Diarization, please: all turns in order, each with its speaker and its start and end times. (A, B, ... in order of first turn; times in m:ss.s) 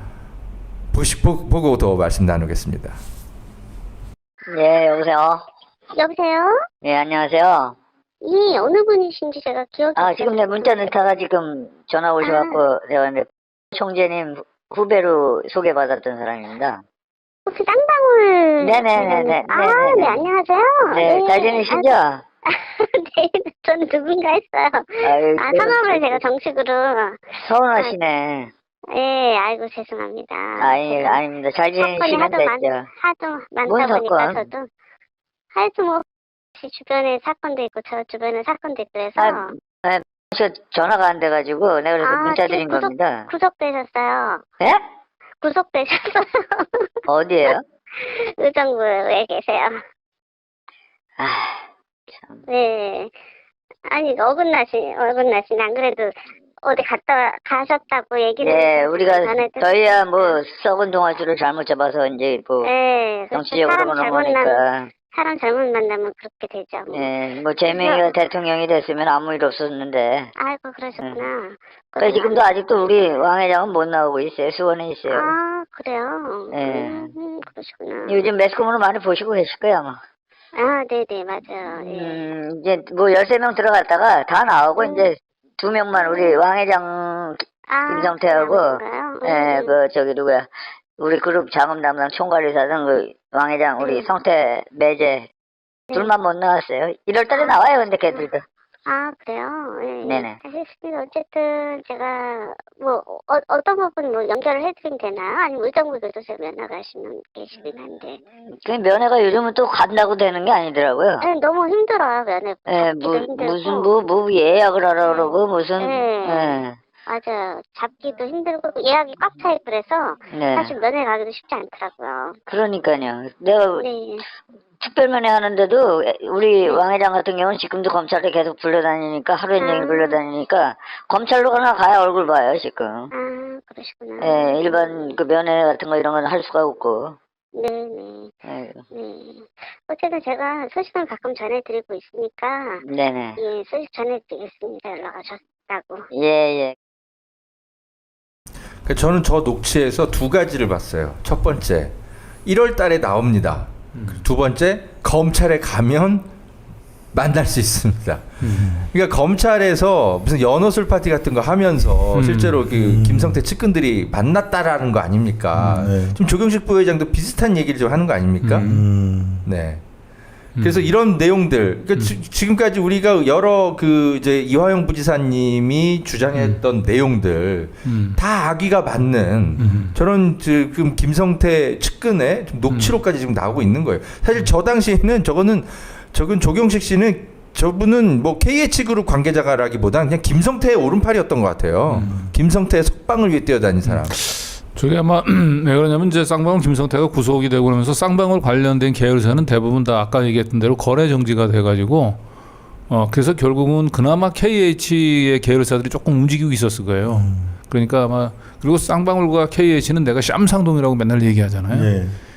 0:00.9-0:03.0 A
0:04.5-0:05.4 B
0:06.0-0:06.6 C
0:06.8-0:07.8 B
0:08.2-0:10.9 C
0:10.0-0:16.8 B
0:12.2-0:12.6 C
0:17.5-0:28.0 C
0:18.6-0:20.2 B
0:20.9-0:22.2 B
0:25.0-0:26.2 B
0:27.4-0:28.5 B
0:28.9-0:31.2 C
0:30.6-0:32.9 B
0:31.8-0:34.7 C
0:33.7-0:34.4 B
0:35.5-0:36.0 C
0:36.6-0:39.6 C
0:39.2-0:43.3 B
0:42.0-0:44.4 C
0:45.4-0:46.9 C
0:47.1-0:47.6 B
0:47.5-0:49.8 C
0:51.2-0:51.7 B
0:52.5-0:53.1 C
0:53.9-1:00.4 C
0:58.4-1:02.7 B
1:02.6-1:07.1 C
1:03.3-1:04.9 B
1:06.9-1:10.3 B
1:07.7-1:08.1 C
1:10.4-1:12.5 C
1:12.0-1:15.3 B
1:15.1-1:18.3 C
1:16.5-1:17.1 B
1:18.1-1:20.0 B
1:20.6-1:22.2 C
1:21.8-1:35.3 B
1:24.8-1:25.1 C
1:25.9-1:26.4 C
1:27.7-1:29.8 C
1:33.8-1:34.1 C
1:35.9-1:38.4 B
1:37.3-1:38.3 C
1:38.9-1:48.2 C
1:40.0-1:40.4 B
1:48.6-1:51.2 B
1:51.2-1:53.9 C
1:52.7-1:56.8 B
1:55.0-2:02.4 C
2:00.3-2:00.7 B
2:02.5-2:03.8 B
2:03.8-2:04.2 C
2:04.8-2:13.1 B
2:09.6-2:10.2 C
2:13.1-2:15.2 C
2:14.2-2:17.2 B
2:17.6-2:18.3 C
2:18.5-2:18.8 B
2:18.9-2:22.8 C
2:22.8-2:23.4 B
2:23.4-2:26.1 C
2:26.1-2:26.8 B
2:28.9-2:36.3 A
2:33.9-2:34.2 D
2:37.1-2:48.7 A
2:38.4-2:38.8 D
2:38.6-2:38.9 E
2:42.1-2:42.7 D
2:42.7-2:43.4 E
2:45.6-2:46.2 E
2:48.4-2:48.8 D
2:48.6-2:49.5 E
2:49.4-2:49.8 A
2:50.6-2:50.9 D
2:50.6-3:14.2 A
2:56.4-2:56.6 D
2:57.8-2:58.2 D
2:59.6-3:00.0 D
3:02.7-3:03.0 D
3:11.9-3:12.2 D
3:12.0-3:12.3 E
3:13.8-3:22.2 D
3:22.9-3:32.0 D
3:27.0-3:27.6 E
3:31.7-3:32.2 E